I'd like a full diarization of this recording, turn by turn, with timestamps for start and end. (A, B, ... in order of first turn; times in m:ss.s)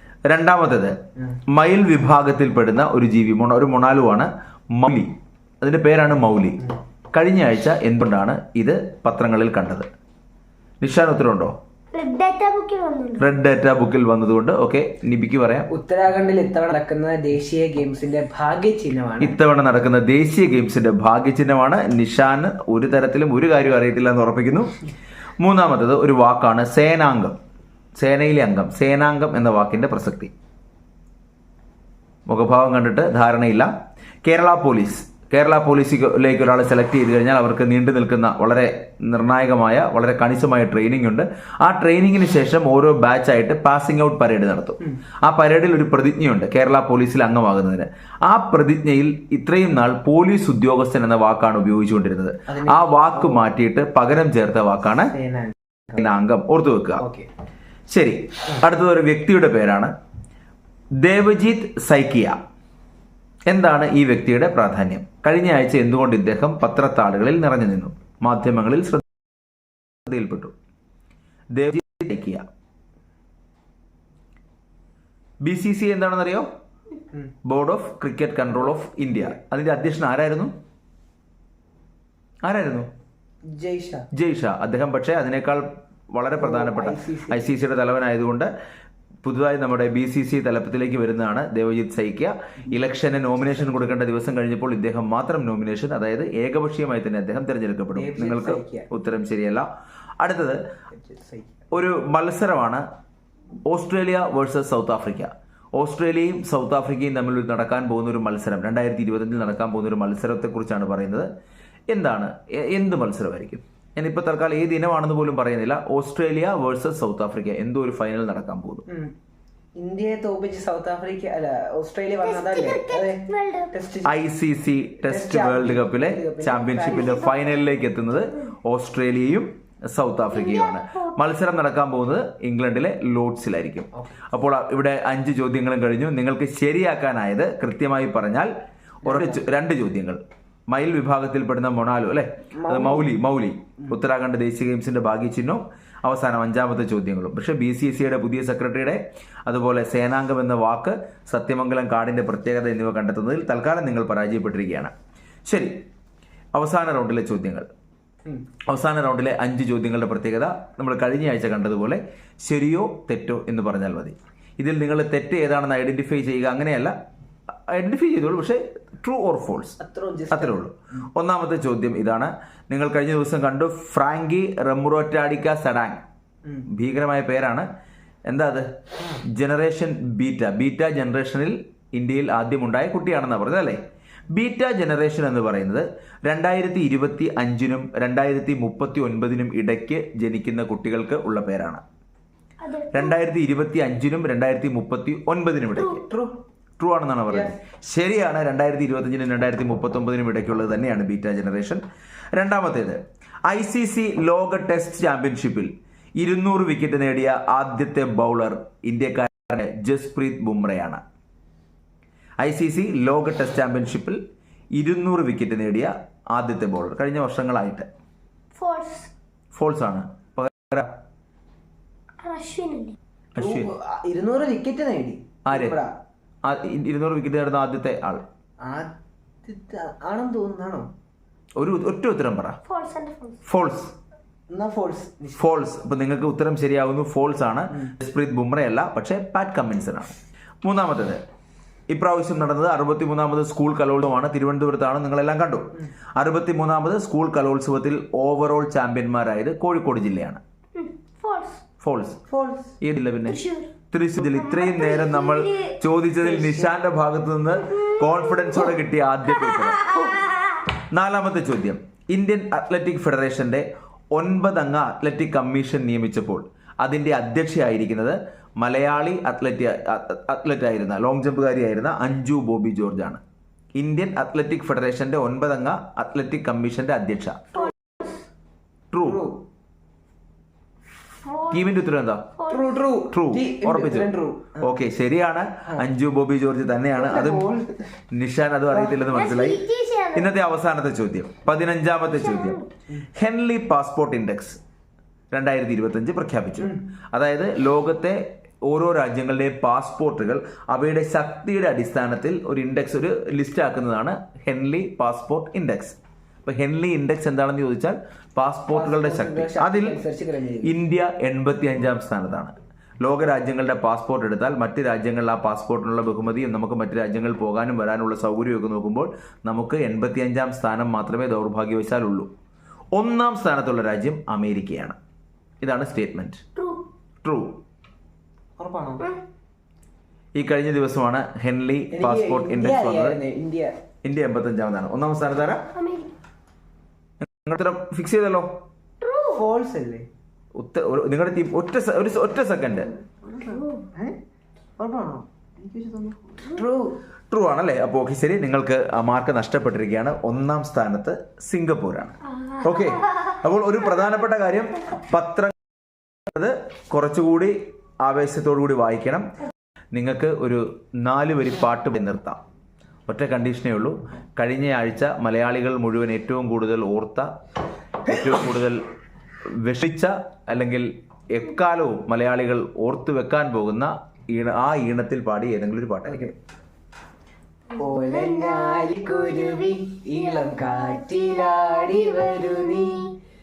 0:00.2-0:00.9 A
0:01.5-0:06.6 A
0:07.1-0:09.9 A
0:10.8-0:11.5 A
0:11.9-0:13.3 B
0:13.2-0:15.7 A
0:15.7-0:19.4 C
0:19.2-0:24.7 A
0:25.4-0:27.4 A
0:28.0-0:30.3 A
0:32.2-0:33.7 A
0:34.2-0:55.1 A
0:52.5-0:53.4 C
0:55.1-0:55.5 C
0:55.9-0:57.0 A
0:57.0-0:57.3 C
0:57.9-0:59.9 A
1:01.0-1:02.4 A
1:03.5-1:09.0 A
1:10.0-1:10.5 A
1:11.5-1:12.4 A
1:15.4-1:16.5 A
1:17.4-1:20.5 A
1:22.4-1:22.9 A
1:23.5-1:24.1 C
1:24.1-1:28.5 A
1:26.4-1:27.6 C
1:29.2-1:39.7 A
1:32.7-1:33.9 C
1:37.9-1:38.9 C
1:40.2-1:40.6 A
1:40.9-1:41.7 C
1:41.7-1:42.8 A
1:43.7-1:51.3 A
1:51.9-1:58.8 A
1:59.8-2:04.2 C
2:02.2-2:03.7 B
2:04.0-2:18.5 A
2:05.0-2:07.2 C
2:06.9-2:08.5 B
2:10.3-2:11.1 B
2:14.0-2:14.2 C
2:19.0-2:19.4 C
2:19.0-2:34.9 A
2:22.5-2:23.1 C
2:35.4-2:35.7 A
2:36.5-2:37.7 A
2:38.7-2:46.9 A
2:47.7-2:49.8 A
2:49.8-2:50.6 C
2:50.3-2:56.0 A
2:56.7-2:57.7 A
2:58.3-2:58.7 A
2:59.3-3:03.8 A
3:04.3-3:11.8 A
3:12.6-3:13.2 B
3:12.9-3:16.0 A
3:15.8-3:16.0 B
3:16.0-3:16.4 C
3:16.8-3:21.8 A
3:17.3-3:17.5 C
3:22.3-3:31.0 A
3:32.4-3:34.2 A
3:34.7-3:37.9 A
3:38.5-3:39.1 B
3:39.5-3:40.9 A
3:42.2-3:43.0 B
3:43.3-3:43.7 A
3:43.4-3:45.9 C
3:45.4-3:45.8 A
3:46.4-3:48.2 A
3:48.6-3:48.9 C
3:49.4-3:50.9 C
3:51.6-3:52.6 A
3:52.6-3:53.4 B
3:53.5-3:53.9 A
3:54.5-3:55.5 C
3:55.4-4:01.2 A
4:01.9-4:10.4 A
4:10.7-4:11.6 B
4:11.8-4:12.2 A
4:12.3-4:12.7 C
4:12.8-4:13.4 A
4:13.2-4:15.8 B
4:13.9-4:20.0 A
4:16.2-4:16.7 C
4:17.9-4:18.8 B
4:19.3-4:20.6 B
4:20.8-4:33.2 A
4:33.8-4:37.5 A
4:37.5-4:38.2 B
4:38.9-4:39.2 A
4:39.0-4:39.4 C
4:41.2-4:41.8 B
4:41.5-4:42.3 A
4:42.4-4:42.8 B
4:42.5-4:44.6 C
4:43.1-4:47.5 A
4:47.0-4:47.9 C
4:48.1-4:49.6 A
4:48.7-4:49.0 C
4:49.1-4:50.3 B
4:50.1-4:52.6 A
4:52.1-4:52.7 B
4:53.1-4:54.6 A
4:55.3-5:10.0 A
5:08.7-5:10.7 C
5:10.6-5:22.3 A
5:22.9-5:25.0 A
5:25.6-5:26.4 A
5:26.6-5:26.8 B
5:27.2-5:27.6 A
5:28.6-5:29.1 C
5:30.4-5:33.2 A
5:31.9-5:33.7 C
5:34.0-5:35.6 A
5:35.7-5:36.1 B
5:37.2-5:38.5 A
5:39.0-5:39.4 B
5:39.3-5:40.1 C
5:40.6-5:42.9 A
5:43.2-5:44.2 C
5:43.4-5:43.8 B
5:44.8-5:47.0 C
5:47.3-5:55.5 A
5:52.4-5:52.9 B
5:56.2-5:59.3 A
5:59.9-6:02.4 A
6:03.1-6:07.3 A
6:08.0-6:08.8 A
6:09.5-6:16.3 A
6:16.0-6:16.3 C
6:17.7-6:23.1 C
6:17.9-6:23.0 B